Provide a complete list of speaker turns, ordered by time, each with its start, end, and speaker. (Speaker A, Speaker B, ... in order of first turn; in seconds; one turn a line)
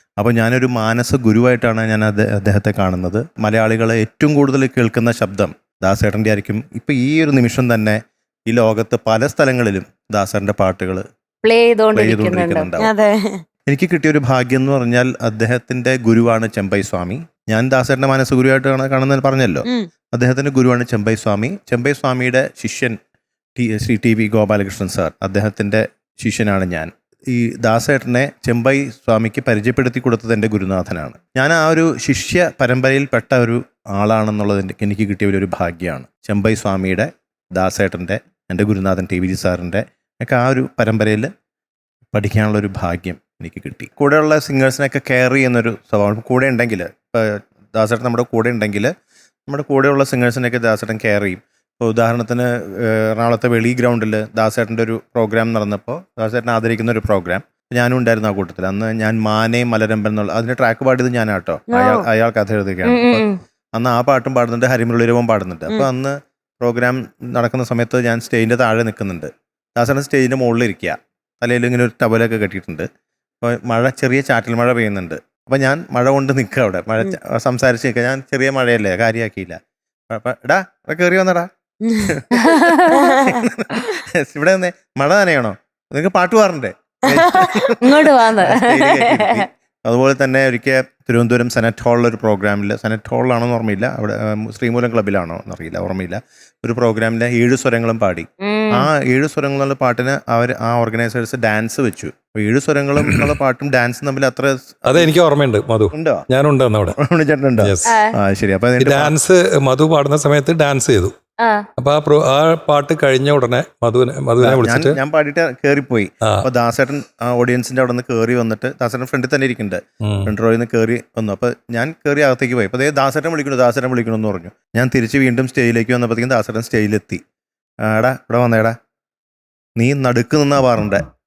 Speaker A: 0.2-11.0
Speaker B: 11.4-12.7
Speaker A: 11.9-12.9
Speaker C: 12.8-13.4
Speaker A: 13.7-23.0
Speaker A: 23.6-41.3
Speaker A: 42.1-48.9
Speaker A: 49.5-63.2
Speaker C: 61.7-62.1
Speaker B: 62.9-63.4
Speaker A: 63.8-72.9
Speaker A: 73.4-79.6
Speaker A: 80.1-81.5
Speaker C: 81.8-82.1
Speaker A: 82.0-105.1
Speaker B: 82.4-83.0
Speaker C: 82.9-83.4
Speaker C: 87.1-87.7
Speaker B: 87.8-89.5
Speaker B: 98.4-98.9
Speaker D: 104.9-107.0
Speaker A: 105.9-106.3
Speaker A: 107.0-109.2
Speaker D: 107.6-107.9
Speaker B: 107.9-108.1
Speaker D: 108.8-111.1
Speaker D: 111.8-115.0
Speaker A: 114.4-127.2
Speaker D: 120.0-120.3
Speaker A: 127.9-128.8
Speaker A: 129.8-131.0